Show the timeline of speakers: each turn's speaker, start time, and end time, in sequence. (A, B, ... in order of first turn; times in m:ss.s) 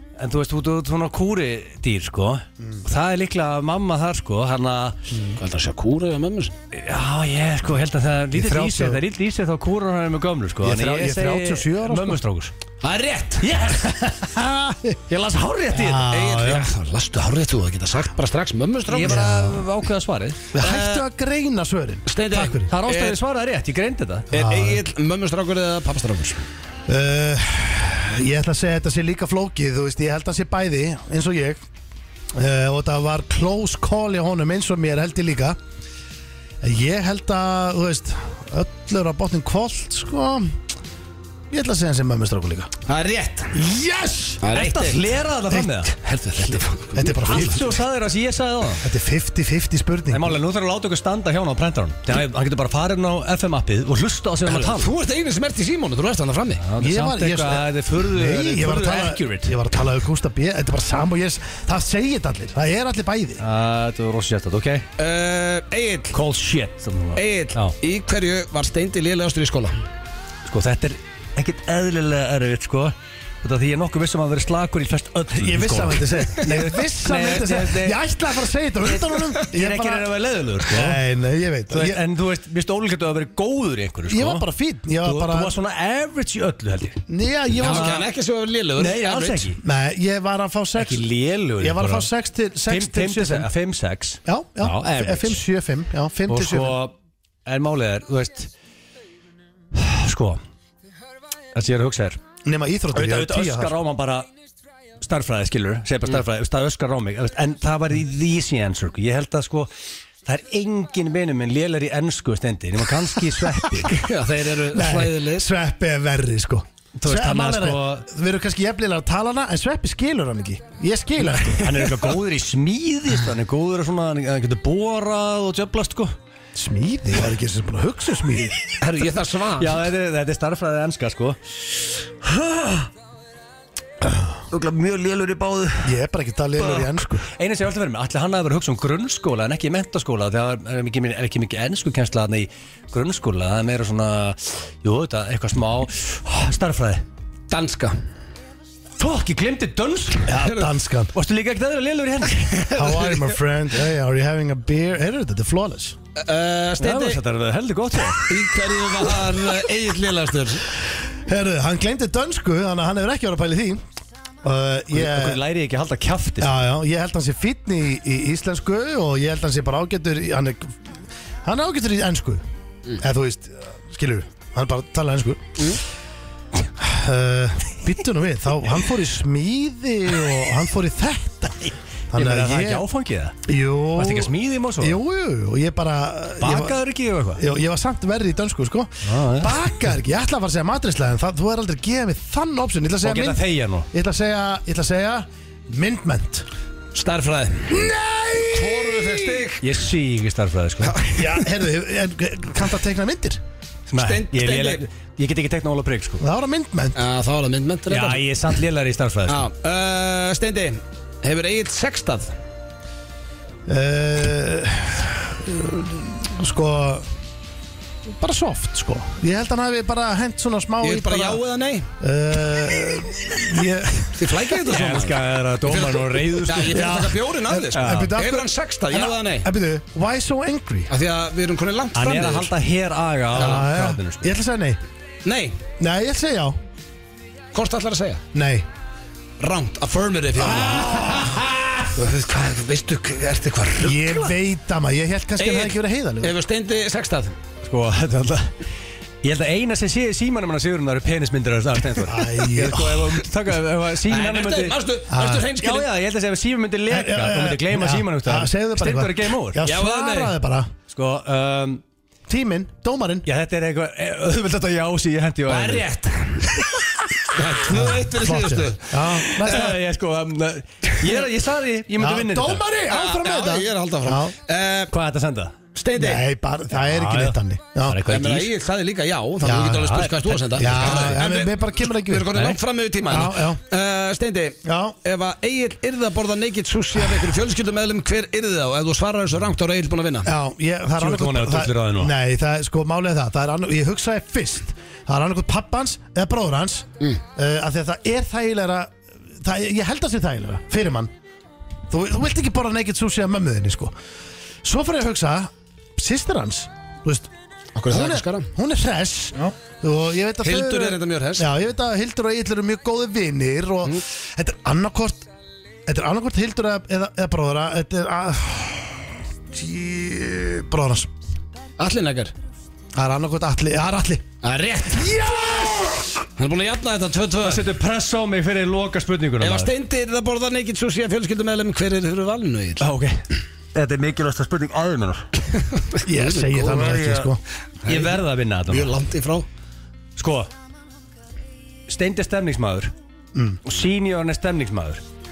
0:00.2-0:05.0 A
0:05.1-0:05.4 B
0:05.4-0:06.6 C
0:06.7-0:12.5 A
0:08.3-0:09.0 B
0:10.6-0:12.2 B
0:12.8-0:13.5 C
0:13.4-0:14.4 A
0:14.2-0:15.0 B
0:15.1-0:16.5 A
0:15.7-0:16.7 B
0:16.1-0:19.3 C
0:18.9-0:20.6 A
0:19.0-0:19.6 B
0:20.5-0:22.7 B
0:22.1-0:23.2 C
0:22.7-0:24.3 A
0:24.3-0:24.8 B
0:24.3-0:26.4 C
0:26.9-0:31.6 B
0:32.3-0:35.6 B
0:36.6-0:40.6 B
0:41.5-0:42.7 B
0:42.9-0:43.6 C
0:43.5-0:44.4 B
0:44.4-0:45.1 C
0:44.5-0:46.0 A
0:45.5-0:45.8 B
0:45.9-0:47.6 C
0:47.0-0:47.8 B
0:47.3-0:48.9 A
0:48.8-0:50.4 B
0:50.1-0:54.9 A
0:54.4-0:56.6 C
0:56.6-0:59.6 A
0:56.8-1:03.4 B
1:03.4-1:04.9 A
1:05.0-1:06.2 C
1:06.1-1:07.8 A
1:07.2-1:09.8 C
1:10.5-1:18.0 A
1:15.3-1:20.1 B
1:19.4-1:21.0 A
1:20.6-1:22.0 B
1:21.7-1:24.4 A
1:24.1-1:25.5 B
1:25.0-1:27.0 A
1:27.1-1:28.0 B
1:27.6-1:29.5 C
1:27.6-1:28.1 A
1:28.8-1:29.6 A
1:29.6-1:31.1 B
1:30.8-1:32.1 A
1:31.6-1:33.5 B
1:32.7-1:35.4 A
1:34.3-1:36.8 B
1:36.3-1:36.9 A
1:37.5-1:38.5 A
1:39.7-1:40.4 A
1:41.6-1:42.2 A
1:42.4-1:43.8 B
1:42.9-1:44.3 A
1:45.0-1:49.7 A
1:50.2-1:54.1 A
1:53.9-1:55.5 C
1:54.7-2:02.0 B
1:57.0-1:58.1 A
2:01.6-2:06.1 A
2:06.6-2:08.6 B
2:08.8-2:09.8 C
2:09.6-2:11.4 A
2:12.2-2:12.9 A
2:14.5-2:15.9 A
2:15.8-2:17.3 B
2:16.6-2:27.0 A
2:27.5-2:27.9 C
2:29.0-2:30.5 A
2:30.2-2:31.1 B
2:31.1-2:32.7 A
2:32.6-2:33.2 C
2:32.7-2:36.0 B
2:36.2-2:37.2 C
2:36.8-2:38.4 A
2:38.2-2:40.7 C
2:41.3-2:43.8 B
2:44.4-2:45.4 B
2:44.9-2:46.6 A
2:46.4-2:52.4 B
2:53.0-2:55.7 B
2:56.8-3:02.8 B
3:02.1-3:03.4 A
3:03.5-3:06.8 B
3:04.0-3:05.0 A
3:06.4-3:07.4 A
3:07.4-3:16.5 B
3:09.0-3:09.7 A
3:13.0-3:13.9 A
3:16.9-3:19.7 C
3:17.7-3:19.5 B
3:19.6-3:21.0 A
3:20.8-3:21.4 C
3:21.2-3:23.4 B
3:23.9-3:24.8 C
3:23.9-3:26.2 A
3:26.2-3:27.0 B
3:27.0-3:28.3 C
3:27.9-3:29.5 A
3:29.3-3:32.4 C
3:33.7-3:37.1 B
3:38.2-3:41.4 B
3:40.8-3:41.9 C
3:42.0-3:44.4 B
3:44.1-3:49.5 C
3:44.7-3:47.0 A
3:46.7-3:50.9 B
3:47.7-3:48.2 A
3:50.9-3:52.5 C
3:52.0-3:54.3 A
3:53.3-3:54.8 B
3:53.4-3:53.6 C
3:55.2-3:55.6 C
3:55.8-3:56.6 B
3:57.5-3:58.2 C
3:58.3-3:58.7 B
3:59.4-4:04.3 C
4:00.4-4:01.4 B
4:03.8-4:06.4 B
4:05.4-4:07.4 C
4:07.6-4:08.5 A
4:09.2-4:14.8 A
4:12.0-4:13.2 B
4:14.1-4:15.9 C
4:15.1-4:15.5 B
4:15.6-4:19.6 A
4:16.9-4:20.7 B
4:19.6-4:20.4 C
4:20.9-4:21.8 A
4:22.3-4:23.3 B
4:23.3-4:25.9 A
4:25.5-4:26.6 C
4:27.3-4:29.6 C
4:27.7-4:29.8 B
4:29.3-4:32.6 A
4:32.0-4:34.3 B
4:32.9-4:34.9 C
4:34.9-4:35.6 A
4:35.8-4:36.3 C
4:36.0-4:38.0 B
4:36.8-4:38.5 A
4:38.1-4:50.3 C
4:39.4-4:40.0 B
4:39.7-4:41.2 A
4:40.5-4:42.4 B
4:42.4-4:42.6 A
4:43.1-4:43.6 B
4:44.6-4:45.0 B
4:50.2-5:01.1 B
4:51.0-4:52.1 A
5:01.9-5:03.9 B
5:04.6-5:07.3 B
5:07.8-5:08.5 C
5:07.9-5:15.3 B
5:10.4-5:11.5 C
5:15.9-5:21.1 B
5:21.8-5:22.3 C
5:23.0-5:24.3 B
5:24.4-5:25.2 C
5:24.9-5:26.2 B
5:26.4-5:27.7 C
5:27.4-5:29.7 A
5:29.4-5:32.9 C
5:32.8-5:35.3 A
5:35.8-5:36.7 C
5:36.0-5:37.4 B
5:36.6-5:37.3 A
5:37.8-5:38.2 C
5:37.8-5:39.0 A
5:38.7-5:39.5 C
5:40.2-5:40.5 A
5:41.9-5:42.9 A
5:43.4-5:43.6 B
5:43.6-5:45.0 A